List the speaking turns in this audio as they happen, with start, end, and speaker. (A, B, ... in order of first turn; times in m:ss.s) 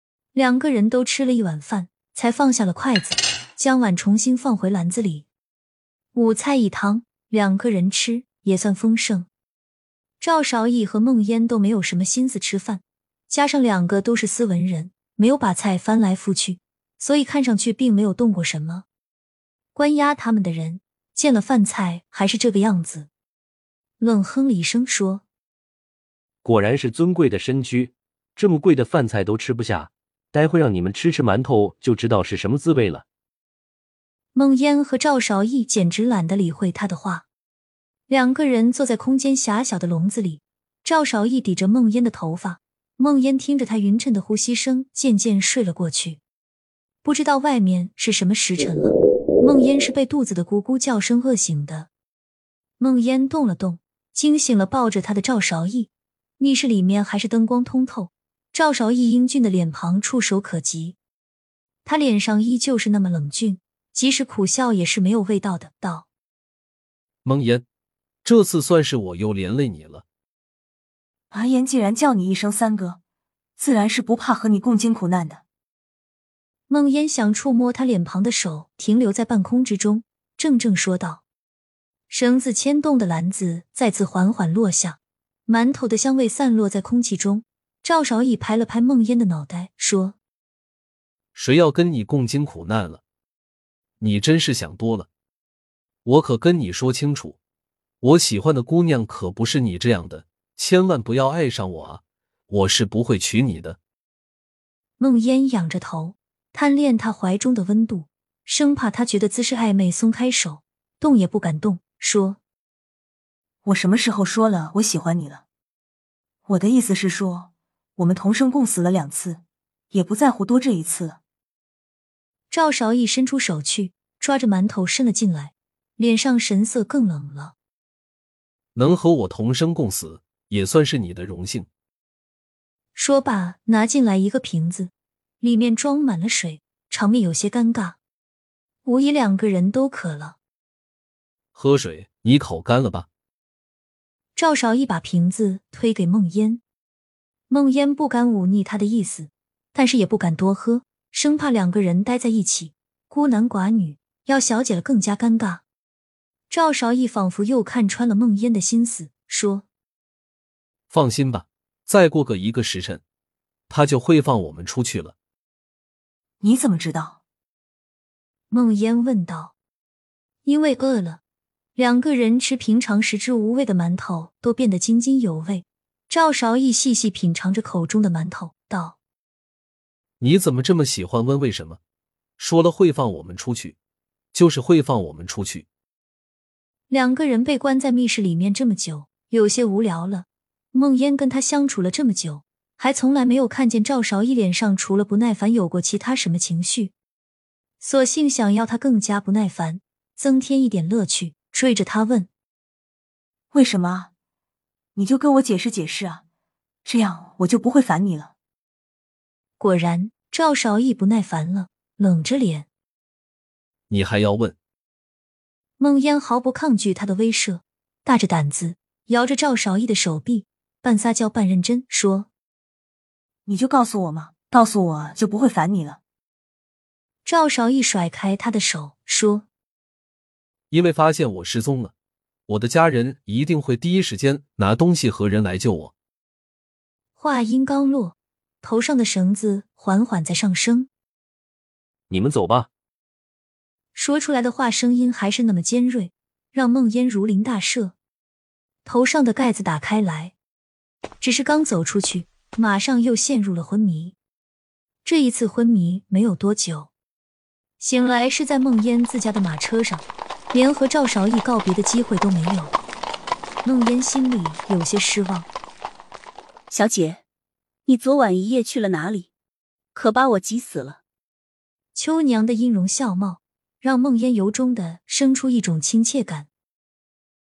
0:00.3-0:05.3 A
0:06.1-0:09.3 A
0:10.2-0:18.8 A
0:19.7-0:23.1 A
0:24.0-0:25.2 A
0:26.4-0:33.0 B
0:34.3-0:37.2 A
0:38.1-0:46.2 A
0:47.0-0:51.9 A
0:52.8-1:01.0 A
1:01.8-1:06.1 A
1:07.2-1:07.6 C
1:08.2-1:10.0 C
1:11.3-1:13.0 D
1:13.6-1:15.4 D
1:16.7-1:21.2 A
1:22.1-1:30.2 A
1:31.3-1:33.0 C
1:34.0-1:35.1 C
1:36.0-1:37.4 C
1:38.0-1:43.8 C
1:45.0-1:52.4 A
1:53.6-1:55.4 D
1:56.5-2:01.2 D
2:02.5-2:07.5 A
2:08.7-2:11.7 C
2:12.9-2:18.0 A
2:18.8-2:20.4 A
2:21.5-2:23.1 C
2:24.4-2:26.6 A
2:27.5-2:35.6 A
2:36.5-2:39.6 A
2:40.9-2:43.0 C
2:43.7-2:45.1 C
2:46.4-2:47.2 D
2:48.5-2:49.5 A
2:50.4-2:51.2 A
2:51.8-2:59.0 A
3:00.2-3:01.8 C
3:02.4-3:03.8 C
3:04.3-3:05.6 C
3:06.9-3:16.9 A
3:17.8-3:22.3 A
3:23.5-3:24.1 D
3:25.0-3:26.2 D
3:26.8-3:28.3 D
3:29.6-3:32.7 A
3:33.9-3:34.6 C
3:35.8-3:42.3 A
3:43.4-3:46.0 D
3:47.2-3:49.4 A
3:50.7-3:51.9 C
3:52.5-3:55.9 C
3:57.2-4:00.9 A
4:02.1-4:02.7 B
4:03.9-4:07.9 A
4:08.8-4:10.3 A
4:11.2-4:14.1 A
4:15.0-4:16.9 A
4:17.8-4:22.7 A
4:23.6-4:25.5 A
4:26.7-4:27.2 E
4:27.8-4:29.3 E
4:29.9-4:31.0 E
4:31.9-4:36.5 A